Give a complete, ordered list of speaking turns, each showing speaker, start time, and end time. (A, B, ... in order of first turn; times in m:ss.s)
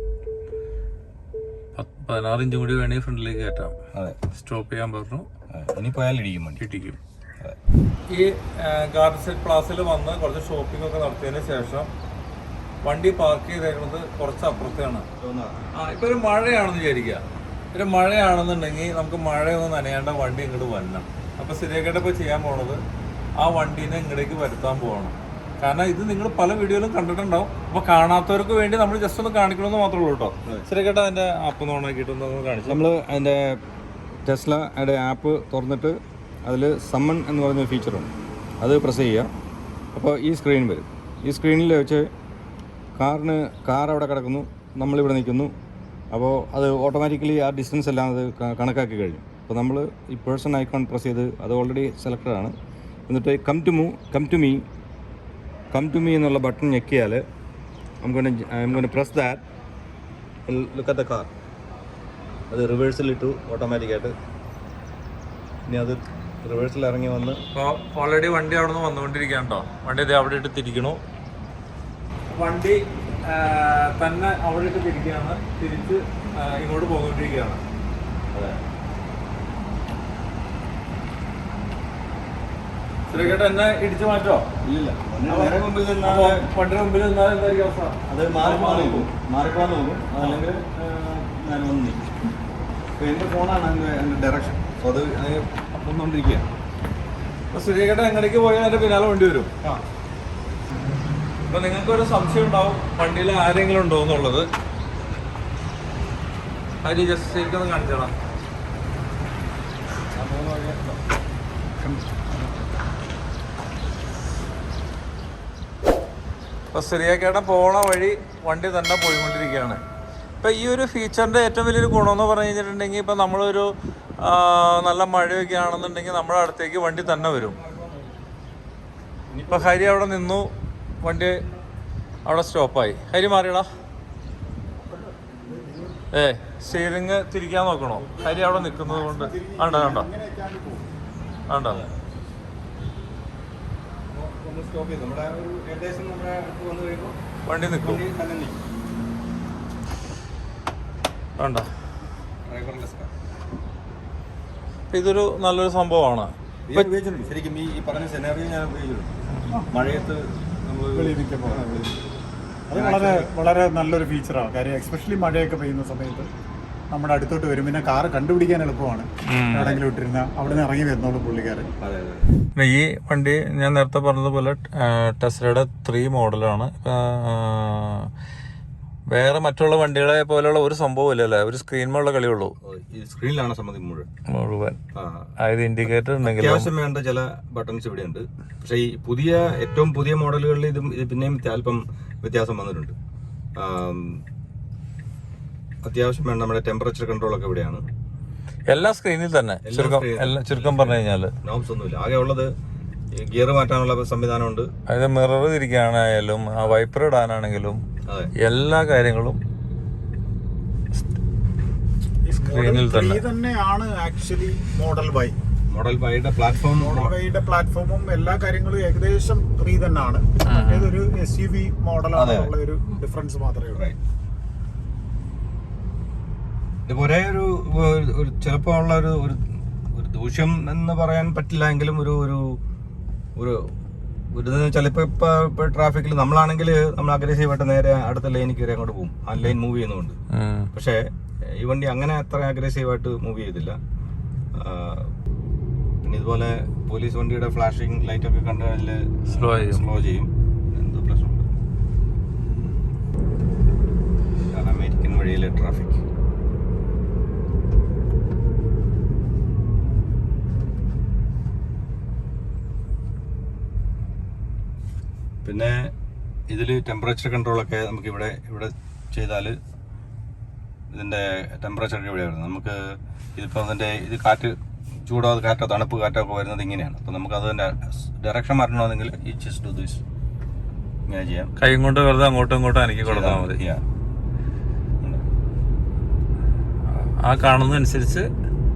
0:01.8-0:03.8 A
0:04.3-0:05.3 A
0:05.5-0:06.6 B
0:06.6-0:07.0 A
0:08.1-0:11.9 A
0:12.8-0:15.1 A
0:15.2-0:15.6 B
0:15.7-0:17.2 A
0:17.7-0:22.8 A
0:23.4-0:32.8 A
0:32.7-0:33.6 B
0:34.2-0:39.3 B
0:39.9-0:42.1 B
0:43.0-0:45.5 B
0:46.1-0:52.6 B
0:53.1-0:54.6 B
0:55.7-0:57.2 B
0:58.0-0:59.4 B
1:00.5-1:01.3 B
1:02.5-1:04.2 B
1:05.7-1:07.4 B
1:07.5-1:11.0 A
1:12.3-1:17.6 A
1:18.3-1:18.6 B
1:23.1-1:24.5 A
1:24.6-1:26.5 B
1:25.3-1:29.1 A
1:28.1-1:32.2 B
1:33.0-1:36.5 B
1:37.5-1:39.5 A
1:41.5-1:44.5 A
1:46.8-1:48.1 A
1:50.1-1:51.0 B
1:56.7-1:59.8 A
2:00.4-2:07.6 A
2:07.5-2:08.1 B
2:09.3-2:09.7 B
2:09.5-2:10.5 A
2:11.0-2:11.4 A
2:12.3-2:13.7 A
2:14.9-2:16.0 C
2:16.1-2:20.1 A
2:18.2-2:20.9 C
2:21.5-2:21.8 A
2:24.1-2:27.2 B
2:27.4-2:28.0 A
2:27.7-2:28.6 B
2:31.4-2:31.7 A
2:32.5-2:33.1 B
2:34.9-2:36.9 A
2:36.7-2:39.2 B
2:39.7-2:42.0 B
2:40.9-2:41.6 C
2:42.7-2:46.3 C
2:42.7-2:43.3 B
2:46.9-2:51.7 C
2:49.3-2:49.8 A
2:49.6-2:49.8 B
2:51.8-2:52.4 B
2:52.6-2:58.1 A
2:59.1-3:02.6 A
3:02.6-3:04.1 B
3:04.3-3:04.8 A
3:04.9-3:05.3 B
3:05.4-3:06.7 A
3:06.2-3:13.0 B
3:13.6-3:14.2 B
3:15.8-3:17.8 B
3:18.7-3:21.3 A
3:19.6-3:22.5 B
3:23.1-3:24.7 B
3:24.9-3:27.8 A
3:28.1-3:28.3 B
3:28.4-3:29.4 A
3:32.2-3:35.4 C
3:32.4-3:33.2 A
3:35.7-3:37.1 B
3:36.8-3:43.8 C
3:40.4-3:41.0 A
3:42.1-3:42.5 B
3:46.9-3:49.4 B
3:49.9-3:52.6 B
3:53.4-3:53.7 B
3:54.3-4:00.2 B
4:00.3-4:00.7 A
4:00.7-4:03.8 B
4:04.6-4:05.1 B
4:06.0-4:11.5 B
4:09.3-4:09.8 A
4:14.5-4:16.0 B
4:25.4-4:25.9 B
4:26.5-4:29.6 B
4:30.9-4:40.0 B
4:41.1-4:41.5 B
4:41.6-4:43.6 A
4:43.0-4:43.8 B
4:46.9-4:48.3 A